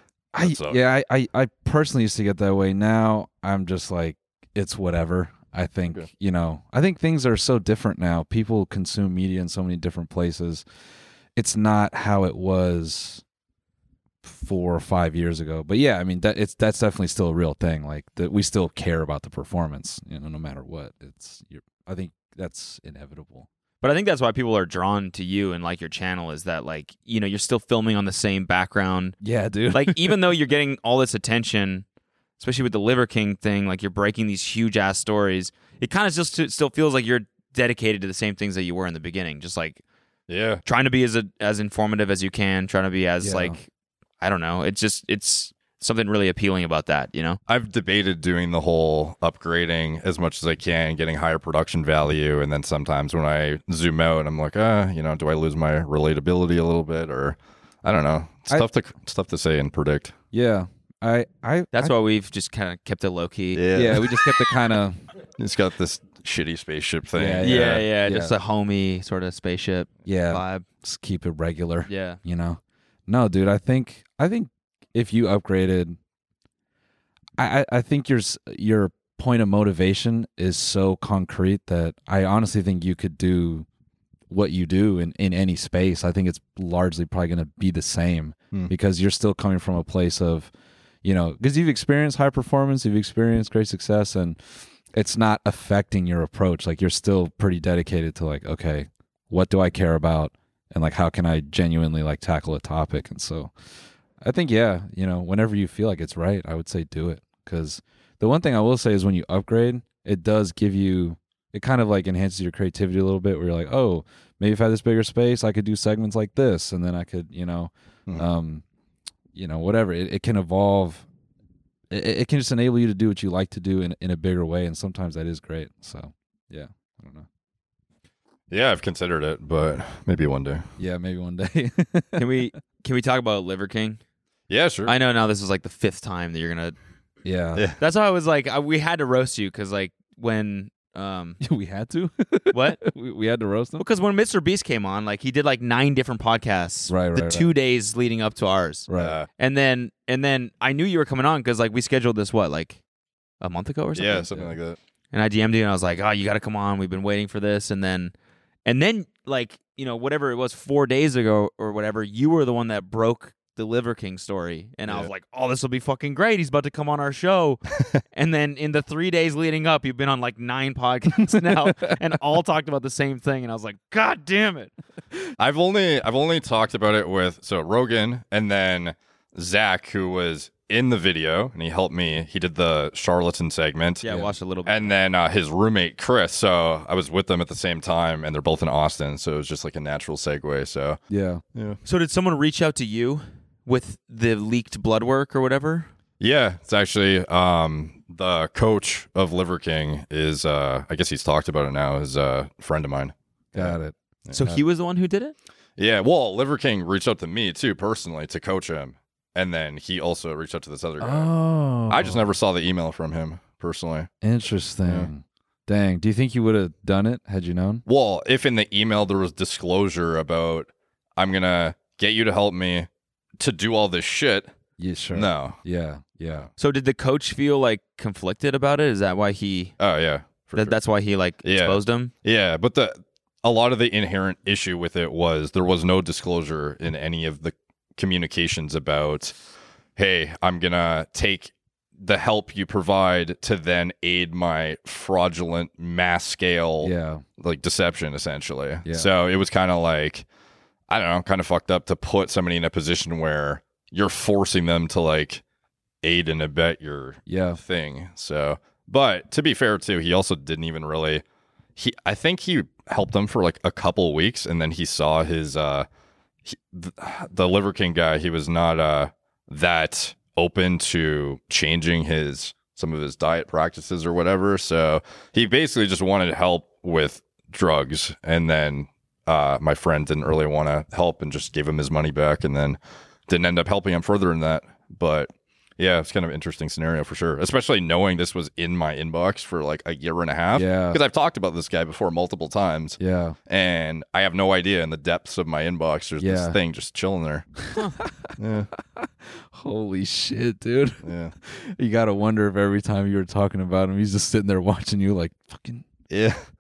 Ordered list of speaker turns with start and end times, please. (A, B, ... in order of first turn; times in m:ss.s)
0:00.3-0:10.6 A
0:00.4-0:00.8 B
0:11.4-0:13.2 A
0:14.2-0:23.5 A
0:23.8-0:29.2 C
0:29.2-0:30.2 A
0:29.7-0:31.8 C
0:32.4-0:39.8 C
0:40.3-0:40.6 B
0:40.6-0:43.7 C
0:43.2-0:43.6 A
0:44.2-0:47.4 C
0:47.5-1:00.1 B
1:00.3-1:01.9 A
1:01.7-1:03.6 C
1:03.6-1:04.2 B
1:03.7-1:05.0 A
1:05.4-1:07.9 B
1:07.2-1:08.4 A
1:07.4-1:10.6 C
1:10.1-1:16.0 A
1:11.9-1:12.2 C
1:17.4-1:23.7 A
1:24.3-1:30.5 A
1:31.0-1:43.5 A
1:44.2-1:58.6 A
1:59.3-2:01.1 A
2:01.9-2:07.3 A
2:08.5-2:10.6 B
2:10.8-2:12.3 A
2:12.2-2:14.0 C
2:14.5-2:14.9 B
2:14.9-2:16.8 C
2:17.2-2:17.7 A
2:17.8-2:21.4 C
2:21.4-2:23.8 A
2:22.5-2:22.8 C
2:23.8-2:32.8 C
2:26.9-2:27.5 A
2:28.9-2:29.2 A
2:29.0-2:29.3 B
2:33.4-2:34.3 C
2:34.0-2:34.8 B
2:35.1-2:38.1 C
2:38.7-2:47.6 C
2:48.1-2:54.7 C
2:51.4-2:52.0 A
2:55.4-3:04.0 B
3:04.0-3:04.9 C
3:04.7-3:11.0 B
3:11.1-3:11.4 A
3:11.8-3:15.9 C
3:16.2-3:23.8 B
3:23.5-3:24.6 A
3:24.3-3:25.4 C
3:25.8-3:31.3 B
3:31.0-3:32.2 A
3:31.9-3:34.1 B
3:34.2-3:37.8 A
3:34.8-3:35.1 B
3:37.9-3:42.9 B
3:43.4-3:44.5 B
3:44.8-3:46.5 A
3:45.1-3:45.6 B
3:46.6-3:49.8 C
3:49.8-3:50.8 B
3:50.6-3:52.1 C
3:51.4-3:59.4 B
4:00.0-4:10.2 B
4:06.8-4:07.2 A
4:10.9-4:15.4 B
4:16.0-4:21.2 B
4:17.3-4:17.6 A
4:21.8-4:25.9 B
4:26.5-4:57.5 B
4:50.5-4:51.0 A
4:53.0-4:53.4 A
4:56.2-4:56.6 A
4:57.7-4:58.3 A
4:58.4-4:58.7 B
4:59.0-5:05.8 A
5:01.0-5:01.3 B
5:06.1-5:06.4 B